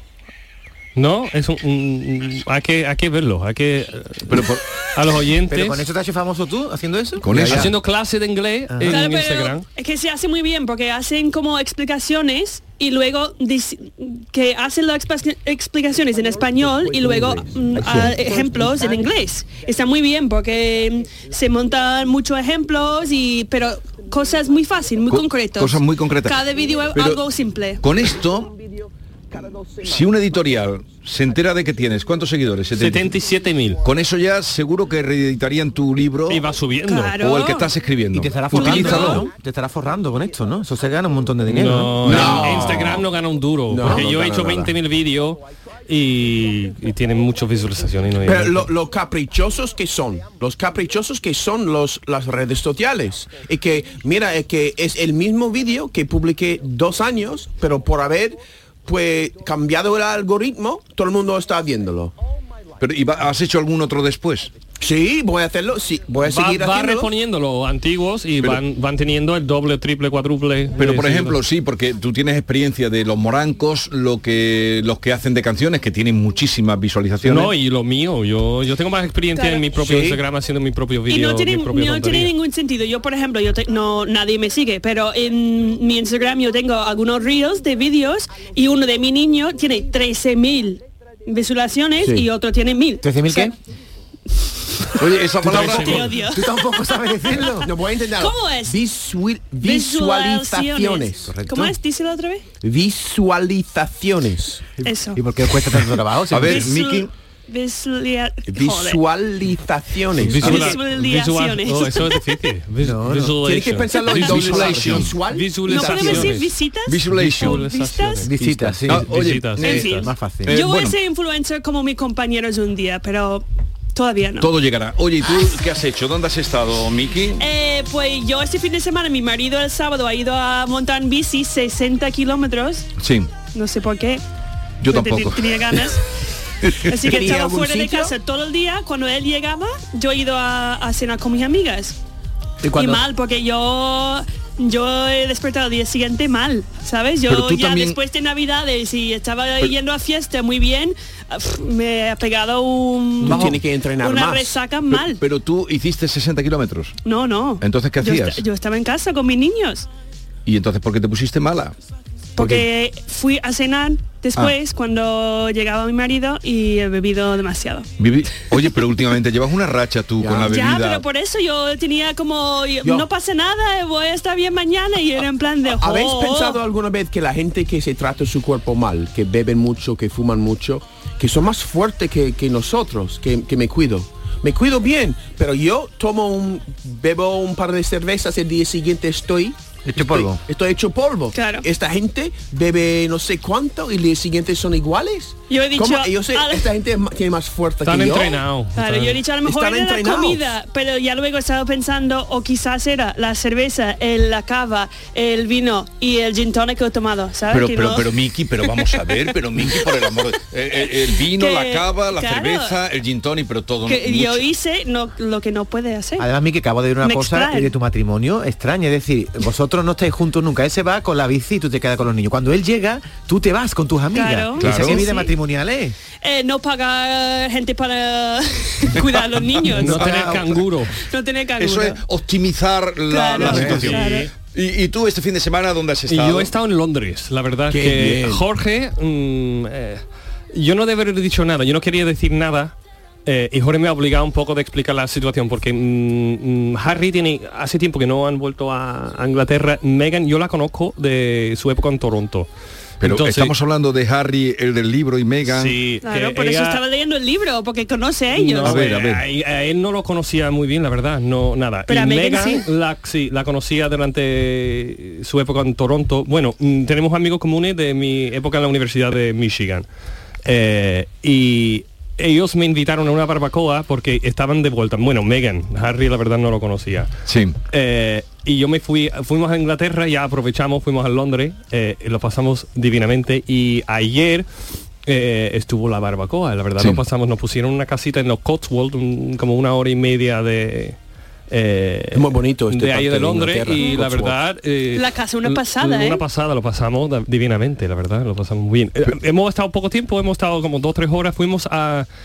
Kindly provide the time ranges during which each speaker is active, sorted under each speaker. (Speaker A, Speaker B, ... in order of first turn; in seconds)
Speaker A: 0.9-5.8, 7.3-9.6, 32.7-33.8, 36.3-37.2, 41.5-48.7, 66.2-71.4, 77.2-82.3, 95.5-96.1, 110.2-116.5, 117.1-120.1, 153.3-153.5, 197.8-199.2, 229.7-230.9, 233.4-234.3, 236.1-242.7, 243.2-252.5, 253.0-253.5, 255.5-256.8, 258.3-269.9, 270.4-277.1, 277.7-284.5, 285.0-291.0, 291.5-302.1
Speaker B: 4.3-4.6, 7.2-7.7, 25.1-27.2, 27.8-28.5, 29.8-33.1, 33.8-36.5, 37.1-39.3, 62.8-64.5, 70.8-77.5, 95.0-96.2, 106.3-107.1, 114.2-115.2, 116.9-117.7, 118.9-121.0, 124.4-127.5, 133.0-133.3, 134.8-135.9, 136.6-137.1, 147.2-148.0, 154.9-157.0, 157.6-158.4, 160.5-161.7, 168.0-171.0, 207.5-214.5, 224.6-225.1, 231.6-236.5, 253.0-255.8, 258.6-259.2, 277.3-277.6
Speaker C: 5.5-7.7, 8.7-9.0, 17.9-19.0, 38.1-42.6, 93.0-93.5, 95.5-97.7, 101.3-101.8, 104.8-106.7, 112.8-113.4, 118.2-119.3, 120.0-120.6, 142.6-143.0, 189.8-190.4, 216.2-225.9, 229.8-230.6
Speaker D: 8.8-27.8, 36.8-37.7, 38.5-39.2, 79.3-79.7, 81.1-93.5, 95.4-96.5, 98.2-98.8, 99.6-102.5, 104.8-105.2, 106.4-109.0, 110.3-112.3, 114.0-114.3, 115.6-118.3, 119.6-124.5, 127.4-132.9, 133.5-134.2, 134.9-136.0, 136.8-142.0, 142.7-155.2, 157.0-159.9, 162.3-167.9, 170.5-176.6, 191.3-191.7, 195.5-196.7, 198.7-208.1, 209.7-209.9, 211.2-212.8, 213.8-216.2, 217.0-217.7, 224.1-225.3, 226.2-230.1, 230.9-232.0, 233.1-234.3, 256.0-258.9, 261.9-262.7, 294.9-296.2
Speaker E: 16.5-18.7, 28.5-30.2, 42.0-43.0, 43.7-44.8, 48.2-62.1, 64.8-67.1, 79.8-80.2, 92.0-92.3, 97.6-101.3, 102.6-104.8, 108.5-110.8, 113.4-116.4, 137.0-138.2, 153.2-154.6, 162.4-162.6, 170.2-170.5, 172.8-173.1, 175.8-198.4, 199.4-200.5, 237.7-238.4, 292.1-294.4